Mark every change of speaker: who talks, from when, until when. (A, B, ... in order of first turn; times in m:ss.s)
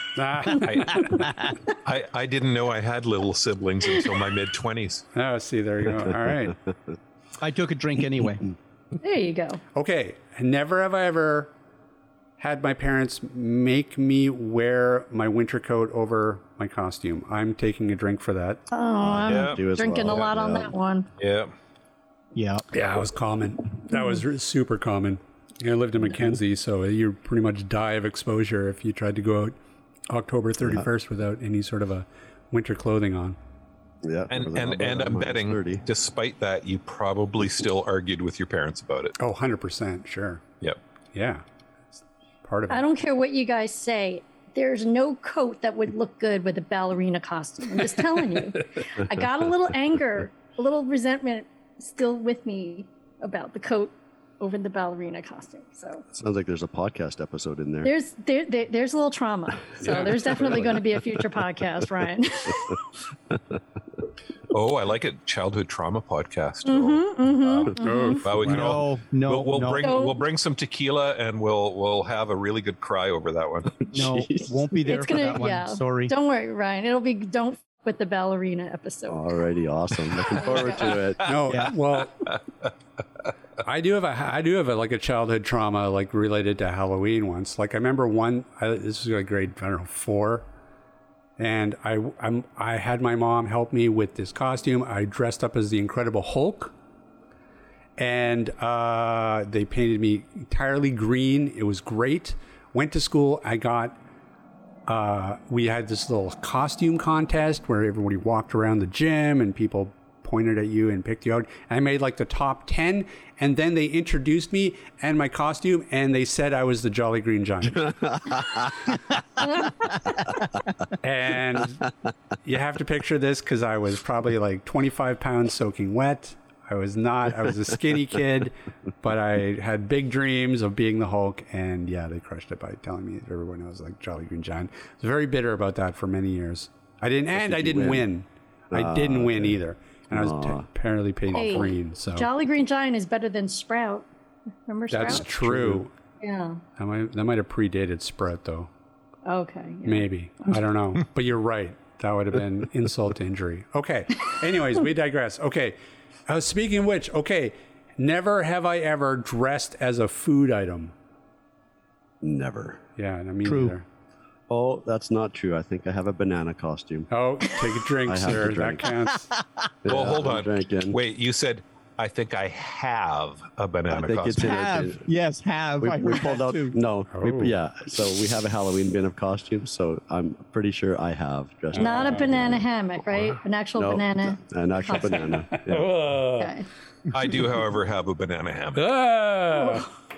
0:00.2-0:01.3 A
0:00.6-0:01.1 B
0:01.8-0:05.0 B
0:05.1-0:06.6 A
0:07.4-0:08.5 C
0:09.0-0:09.6 D
0:09.8-0:11.5 A
0:12.4-0:18.6 A
0:18.7-0:21.1 D
0:19.0-0:20.8 E
0:19.3-0:20.3 B
0:21.2-0:21.5 B
0:22.4-0:22.6 C
0:22.7-0:29.6 A
0:30.1-0:33.4 A
0:34.0-0:35.8 E
0:34.3-0:39.2 B
0:39.2-0:40.4 A
0:41.1-0:41.4 A
0:42.4-0:42.8 A
0:42.7-0:56.0 D
0:56.1-0:57.9 E
0:57.8-1:02.8 D
0:59.8-1:00.8 A
1:04.5-1:13.9 B
1:06.7-1:08.3 D
1:07.8-1:08.8 A
1:08.4-1:10.0 C
1:09.8-1:10.2 D
1:13.9-1:16.1 C
1:14.0-1:14.5 E
1:14.9-1:19.3 D
1:19.1-1:21.3 E
1:20.3-1:21.0 D
1:21.2-1:22.3 A
1:23.6-1:30.5 A
1:31.4-1:36.7 A
1:38.0-1:44.0 A
1:44.9-1:58.0 A
1:58.0-1:58.6 E
2:01.0-2:01.9 A
2:02.4-2:22.3 A
2:17.3-2:18.1 E
2:18.7-2:19.6 E
2:20.1-2:20.7 E
2:21.3-2:24.1 D
2:24.7-2:25.3 D
2:24.9-2:25.9 A
2:25.1-2:25.8 E
2:26.2-2:26.6 D
2:26.8-2:28.7 A
2:29.2-2:30.6 D
2:29.8-2:40.9 A
2:42.2-2:42.8 E
2:43.0-2:43.9 A
2:43.4-2:43.8 C
2:44.5-2:47.1 E
2:47.1-2:49.3 A
2:48.1-2:48.9 E
2:49.8-2:51.0 E
2:49.9-2:54.7 B
2:53.9-2:55.1 E
2:54.4-2:56.8 C
2:55.8-3:02.6 E
2:57.1-2:57.6 A
3:01.8-3:02.6 A
3:01.8-3:05.6 D
3:03.8-3:05.9 E
3:05.5-3:06.5 A
3:06.4-3:06.7 D
3:07.1-3:08.9 B
3:08.8-3:09.9 A